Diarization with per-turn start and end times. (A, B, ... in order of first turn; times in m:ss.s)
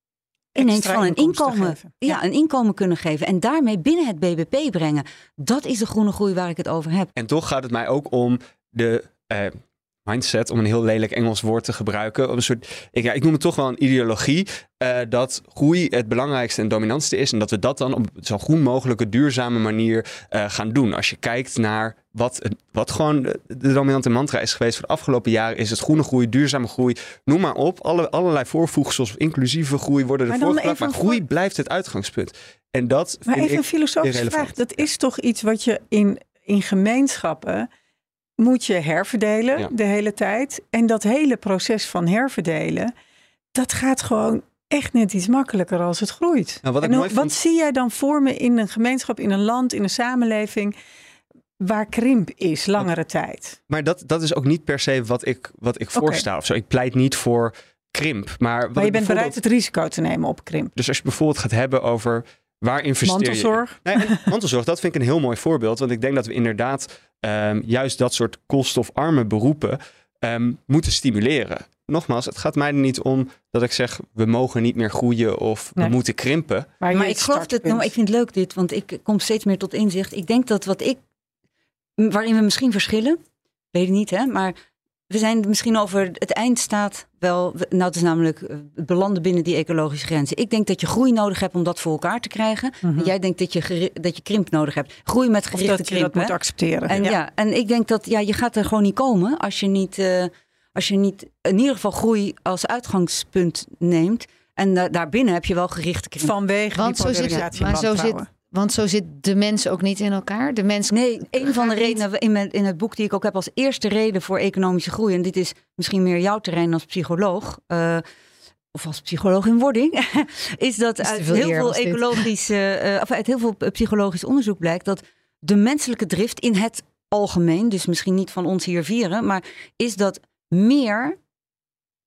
0:00.5-0:02.2 A
0:00.6-0:07.1 B
0:07.2-0:34.9 C
0:30.3-0:31.2 A
0:33.3-0:37.7 A
0:38.4-0:42.9 A
0:43.5-0:50.7 A
0:46.6-0:47.3 C
0:51.6-0:53.6 A
0:53.7-0:59.4 C
0:56.0-0:56.2 A
0:58.8-1:00.7 A
1:00.8-1:16.7 C
1:03.0-1:04.2 A
1:16.8-1:17.9 A
1:16.9-1:21.0 B
1:22.0-1:23.2 B
1:23.7-1:24.5 B
1:25.1-1:36.3 B
1:32.8-1:33.1 A
1:35.5-1:37.2 A
1:36.9-1:46.3 B
1:46.2-1:48.2 A
1:46.7-1:52.0 D
1:47.0-1:47.3 B
1:50.9-1:58.0 B
1:58.7-2:11.2 B
2:01.0-2:02.2 D